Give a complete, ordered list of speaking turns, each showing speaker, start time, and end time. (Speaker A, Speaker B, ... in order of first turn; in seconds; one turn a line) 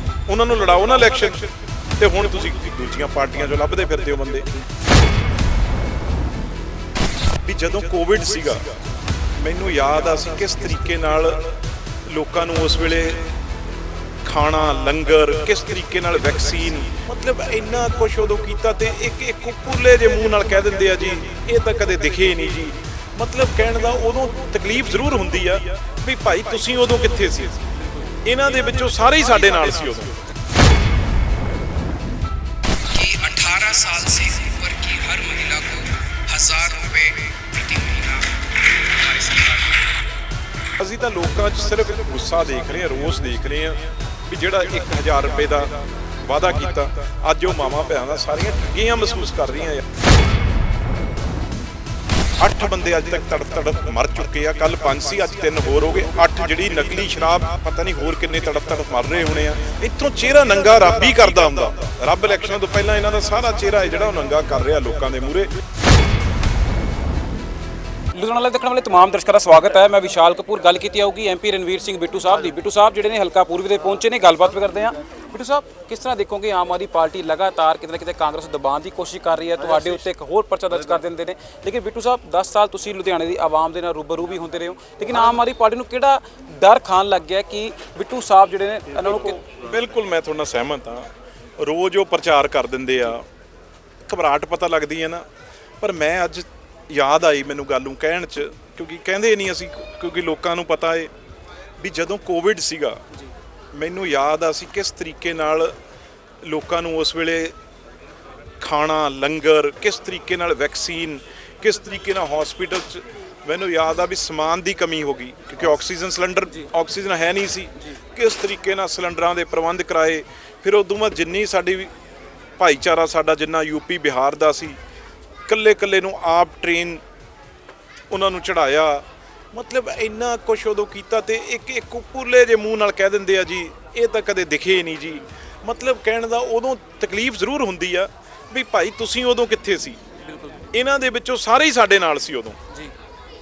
Speaker A: 0.3-4.6
Speaker A: 7.4-8.8
Speaker A: 9.4-13.3
Speaker A: 14.2-30.2
Speaker B: 32.9-40.0
Speaker A: 40.8-49.9
Speaker A: 52.4-65.5
Speaker C: 68.1-89.4
Speaker A: 89.4-93.3
Speaker A: 94.0-95.3
Speaker A: 95.8-101.1
Speaker A: 101.8-103.0
Speaker A: 103.7-105.8
Speaker A: 106.4-107.5
Speaker A: 108.6-121.9
Speaker A: 122.6-124.8
Speaker A: 125.5-127.0
Speaker A: 128.1-140.0
Speaker C: 140.2-140.7
Speaker A: 140.7-142.6